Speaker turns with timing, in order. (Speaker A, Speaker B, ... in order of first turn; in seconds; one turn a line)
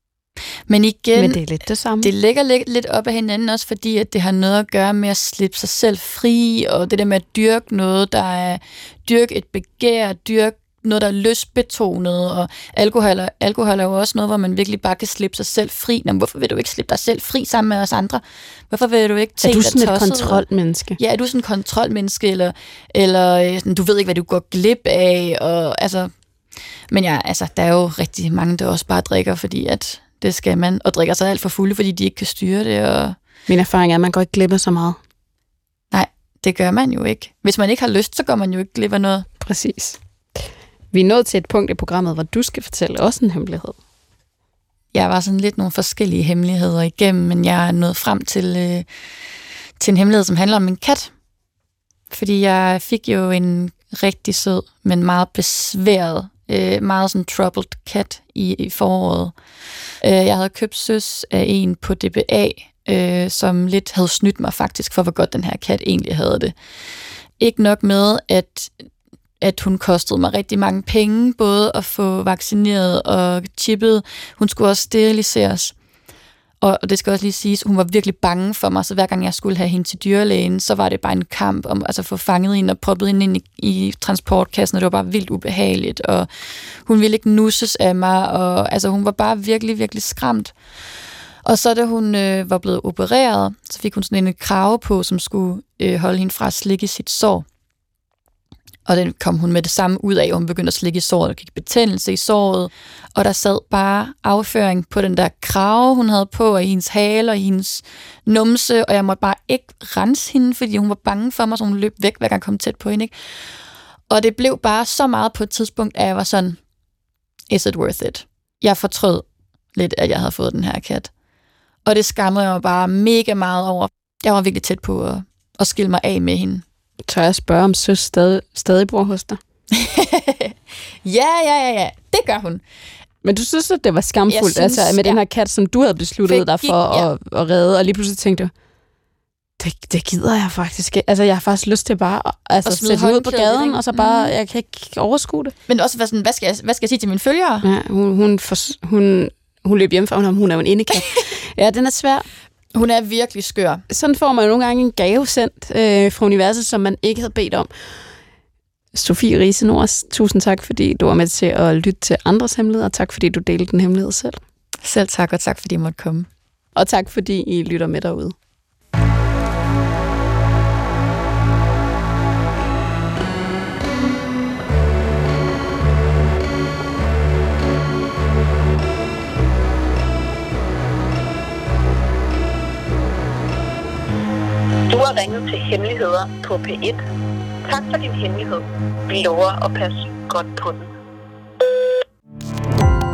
Speaker A: 0.7-1.4
Speaker B: 1.1-2.1
Speaker A: 2.0-20.4
Speaker B: 19.4-21.0
Speaker A: 21.0-26.1
Speaker A: 26.9-33.2
Speaker B: 33.5-35.0
Speaker A: 35.9-39.3
Speaker B: 39.4-43.8
Speaker A: 44.9-48.9
Speaker A: 49.8-51.1
Speaker A: 52.1-59.4
Speaker A: 60.0-66.5
Speaker A: 67.4-68.7
Speaker A: 69.4-75.7
Speaker A: 76.6-86.3
Speaker A: 86.8-90.5
Speaker A: 91.4-97.5
Speaker A: 98.9-113.1
Speaker A: 114.1-116.6
Speaker A: 117.5-121.1
Speaker A: 121.8-126.6
Speaker B: 127.1-129.4
Speaker A: 129.7-132.6
Speaker B: 133.2-138.5
Speaker A: 134.3-135.2
Speaker A: 136.2-137.1
Speaker B: 139.6-145.5
Speaker A: 142.6-144.3
Speaker A: 145.7-147.7
Speaker B: 147.6-152.3
Speaker A: 152.7-153.8
Speaker B: 153.9-157.7
Speaker B: 158.9-164.4
Speaker A: 164.8-166.3
Speaker B: 166.8-168.3
Speaker C: 184.9-187.0
Speaker C: 187.7-190.9